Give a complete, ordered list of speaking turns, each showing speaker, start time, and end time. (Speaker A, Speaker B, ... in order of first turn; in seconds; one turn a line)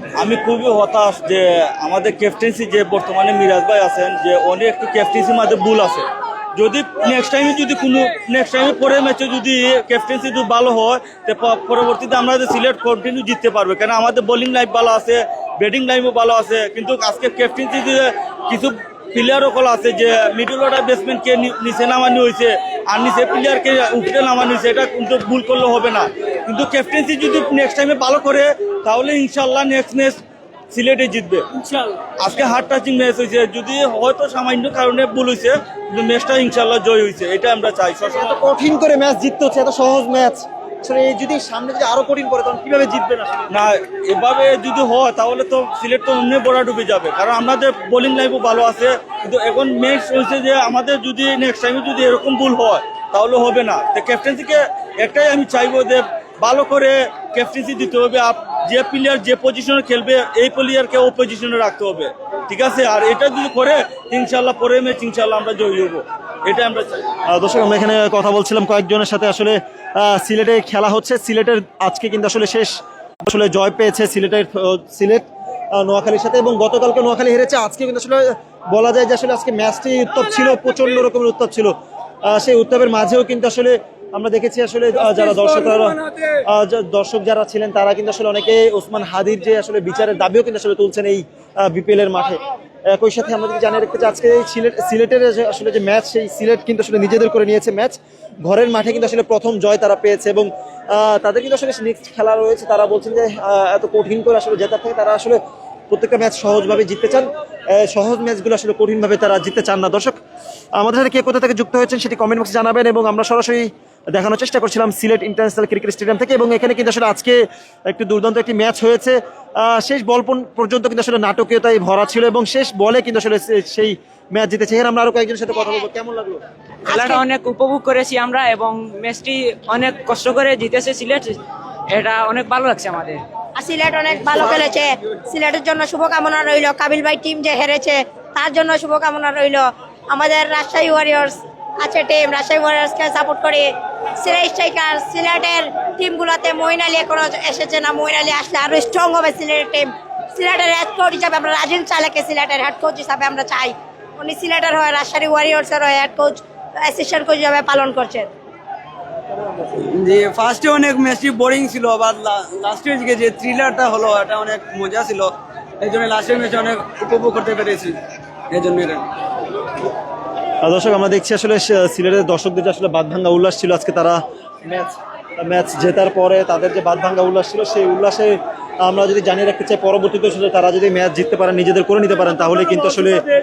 Speaker A: 0.2-30.2
Speaker A: 30.7-31.4
Speaker A: 32.2-38.4
Speaker B: 38.0-43.5
Speaker A: 43.5-67.0
Speaker B: 67.3-81.7
Speaker B: 82.2-86.0
Speaker B: 86.5-105.4
Speaker B: 105.9-110.2
Speaker B: 110.8-117.4
Speaker B: 117.9-126.4
Speaker C: 126.9-127.2
Speaker D: 126.9-131.4
Speaker D: 131.9-133.2
Speaker C: 133.6-158.3
Speaker E: 159.8-168.0
Speaker E: 168.5-169.0
Speaker B: 170.6-183.2